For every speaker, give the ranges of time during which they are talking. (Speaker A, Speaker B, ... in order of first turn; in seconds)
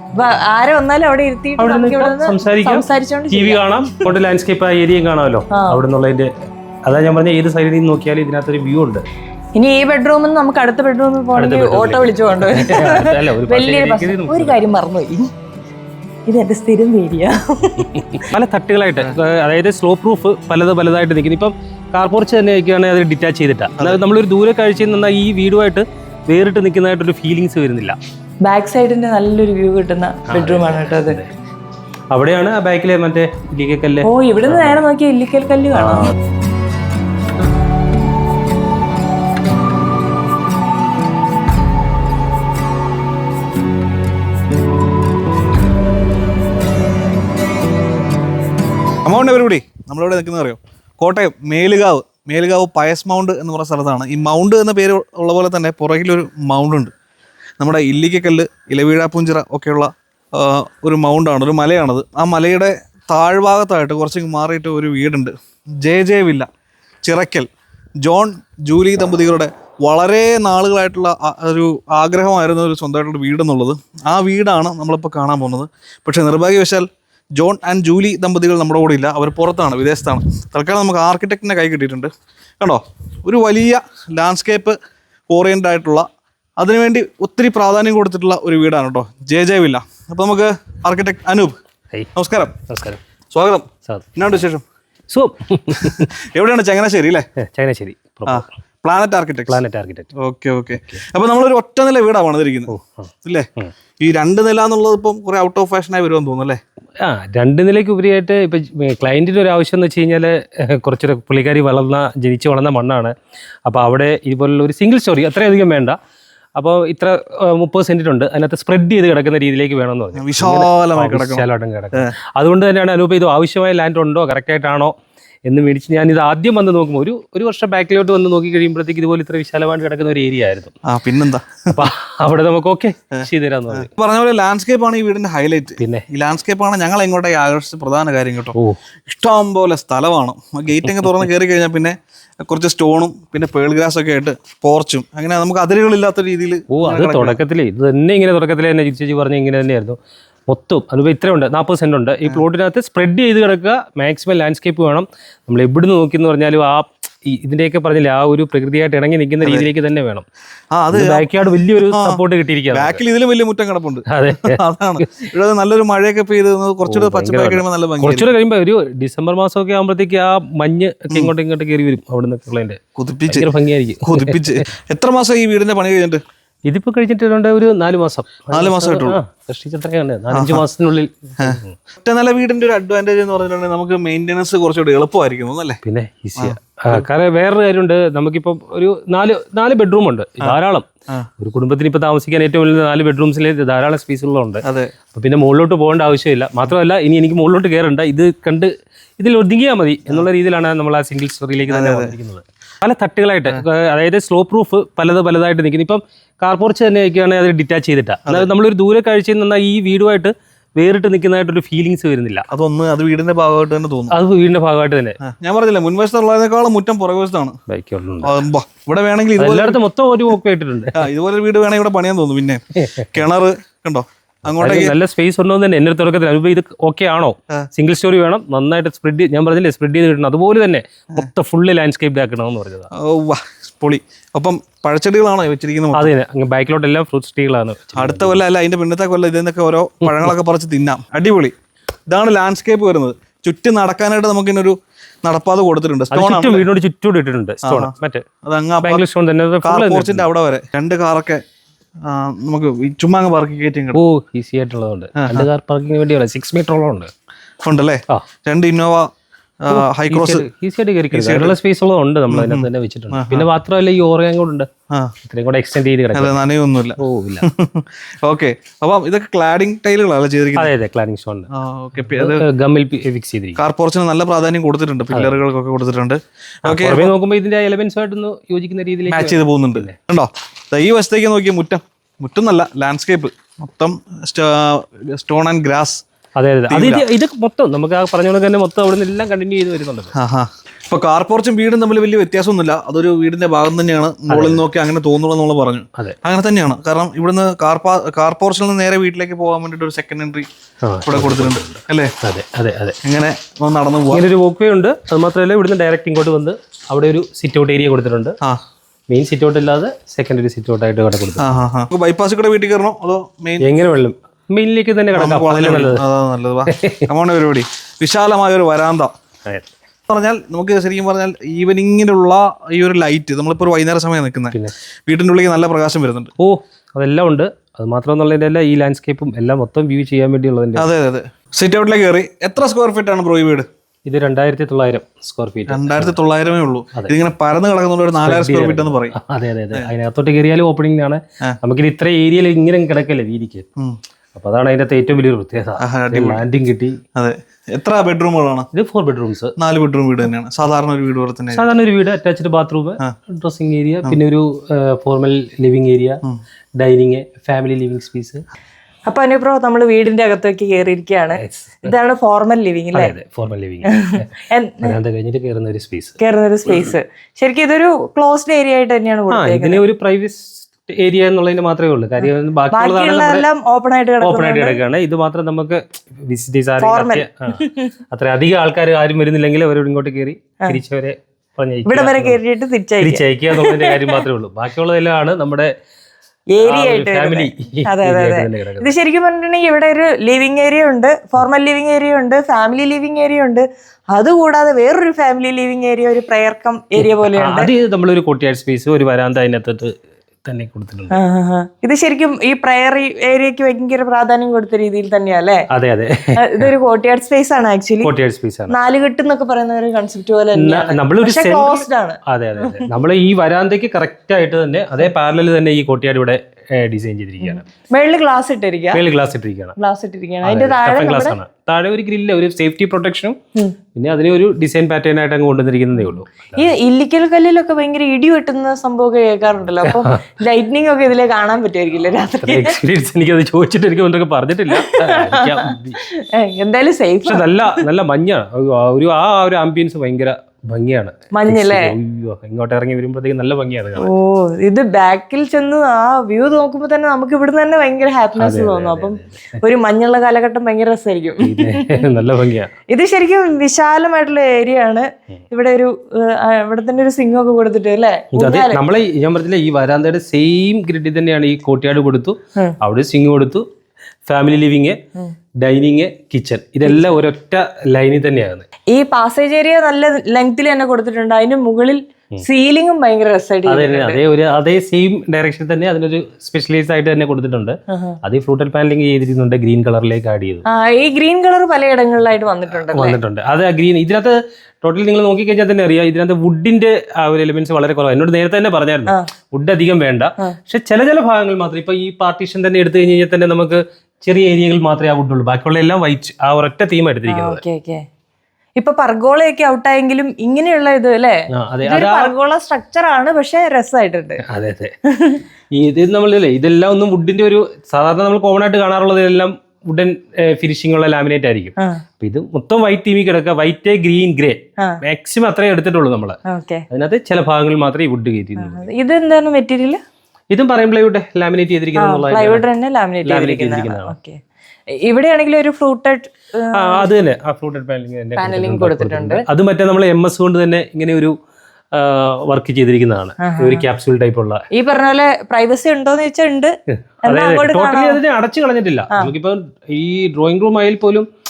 Speaker A: 0.1-3.9, 5.5-5.8, 9.6-15.2, 16.3-18.2, 28.4-31.2, 34.0-36.1, 359.1-363.1, 363.9-365.0, 366.2-369.8, 372.2-374.8, 376.8-377.9, 381.9-384.2, 386.5-397.7, 401.1-405.6, 406.4-408.1, 408.7-412.9, 417.4-419.0, 419.8-421.4, 426.0-432.8, 434.7-435.7, 436.3-437.8, 441.3-441.9, 444.0-452.0, 452.9-458.8, 466.8-467.1, 468.9-474.2, 477.9-478.2, 480.7-483.2, 497.3-498.0, 498.8-504.4, 505.1-505.4, 516.5-516.8, 518.6-520.0, 521.9-524.4, 525.0-527.1, 528.4-529.4, 533.4-533.8, 534.7-536.7, 537.2-538.2
Speaker B: 1.6-6.3, 6.8-9.0, 11.3-14.6, 17.9-28.0, 30.3-31.3, 32.1-34.8, 35.7-36.1, 92.7-93.0, 95.1-96.1, 97.4-98.5, 99.5-100.1, 102.7-103.7, 107.0-113.1, 113.7-116.0, 116.5-124.9, 125.5-130.7, 131.7-133.9, 135.8-136.0, 140.8-141.2, 146.7-150.0, 150.5-160.2, 160.9-163.0, 164.1-165.2, 166.9-174.6, 176.7-181.7, 185.8-190.9, 191.4-212.5, 214.1-215.2, 217.7-218.4, 219.4-221.1, 222.8-223.1, 224.6-232.9, 235.9-238.4, 246.1-248.2, 248.8-250.2, 253.9-257.1, 259.7-264.7, 265.3-266.4, 267.0-267.5, 270.6-271.5, 272.1-273.6, 275.1-275.4, 276.7-279.9, 286.4-290.1, 294.3-294.6, 300.8-303.0, 304.1-308.4, 309.1-311.4, 313.6-316.0, 316.7-317.1, 326.4-330.9, 334.1-336.1, 338.2-343.6, 344.3-346.9, 348.7-349.5, 351.5-356.2, 356.8-358.4, 361.4-361.9, 362.9-366.1, 369.3-373.4, 374.2-377.6, 378.1-382.4, 383.0-385.7, 386.6-388.9, 397.0-399.9, 400.4-401.2, 405.7-406.7, 408.0-408.7, 410.5-417.6, 418.9-419.7, 420.4-423.4, 423.9-426.7, 429.8-430.2, 432.4-436.0, 437.2-444.1, 448.4-449.6, 451.4-452.7, 458.3-463.6, 464.3-465.0, 465.6-468.6, 473.6-480.6, 482.9-497.6, 501.6-502.3, 504.5-504.9, 505.7-516.4, 516.9-518.9, 520.5-522.6, 523.2-524.1, 526.8-531.3, 531.9-534.6, 537.2-541.2
Speaker C: 49.0-56.9, 57.6-66.5, 67.0-67.5, 68.0-84.8, 85.3-86.0, 86.6-91.5, 92.1-92.6, 93.3-94.6, 95.8-97.3, 98.2-99.6, 100.2-103.5, 104.0-106.6, 120.1-122.1, 130.8-131.9, 133.2-147.4, 159.4-159.7, 160.7-162.2, 162.7-168.3, 172.9-173.5, 174.0-176.2, 178.5-179.2, 180.3-180.6, 181.4-185.8, 186.4-187.0, 194.6-194.9, 201.7-202.1, 212.5-214.2, 215.2-217.6, 218.2-219.8, 220.9-224.9, 232.9-236.1, 237.9-241.5, 242.1-246.7, 247.6-249.0, 249.6-251.4, 252.0-254.0, 255.2-255.5, 257.6-259.1, 259.6-260.4, 261.1-261.6, 262.3-263.5, 266.1-270.7, 271.5-272.4, 273.6-277.1, 279.1-286.0, 286.7-287.0, 290.1-300.5, 301.1-302.1, 303.0-304.2, 311.4-313.7, 315.1-319.1, 320.1-326.3, 330.8-333.7, 335.7-339.2, 345.8-346.4, 347.1-348.7, 349.6-351.7